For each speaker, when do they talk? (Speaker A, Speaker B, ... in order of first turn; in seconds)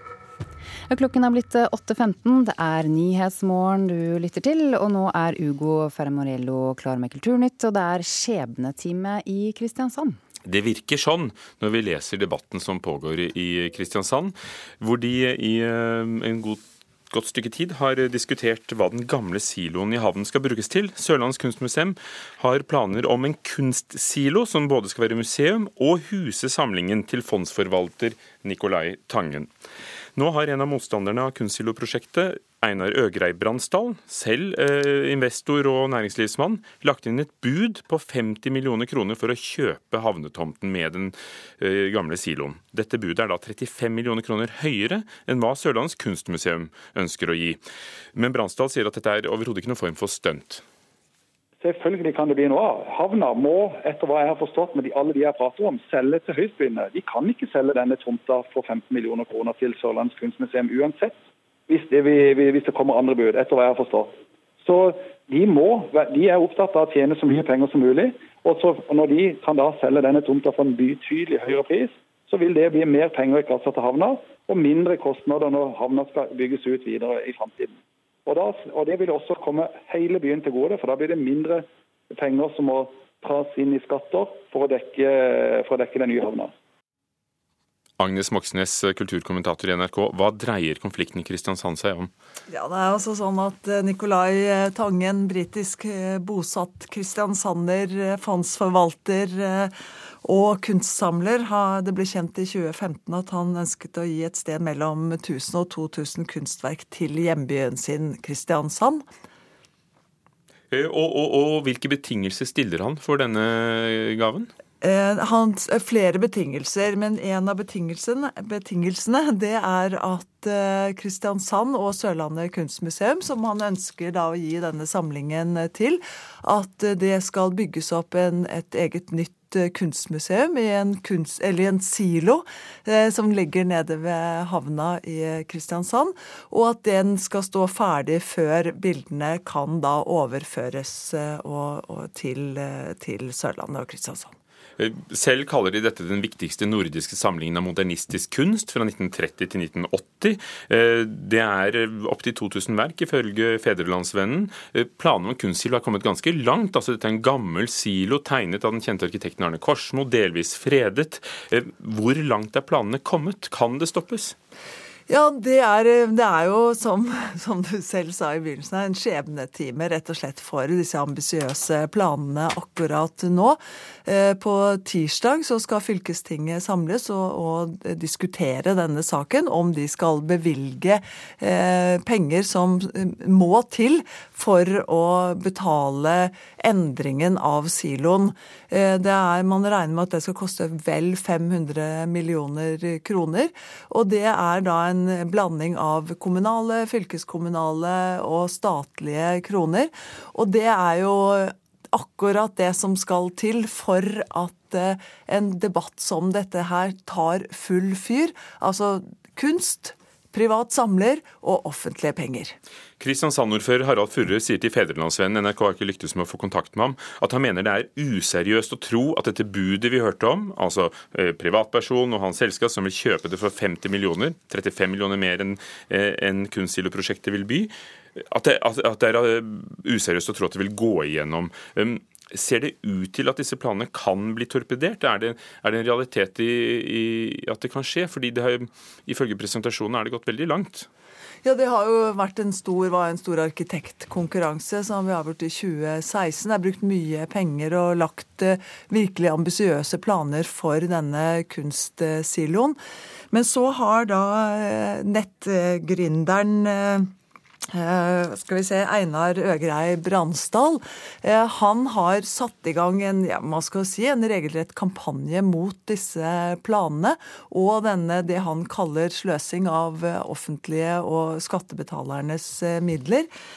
Speaker A: 0.9-10.2
Speaker B: 10.4-29.5, 30.1-47.6, 48.1-50.6, 88.0-92.1, 110.7-114.5, 144.8-164.3, 213.0-240.9
Speaker C: 51.6-61.1, 61.7-77.7, 78.2-86.5
Speaker D: 92.5-99.7, 100.2-109.0, 114.8-144.3, 165.1-212.5, 241.4-252.8, 253.3-257.1, 257.7-273.3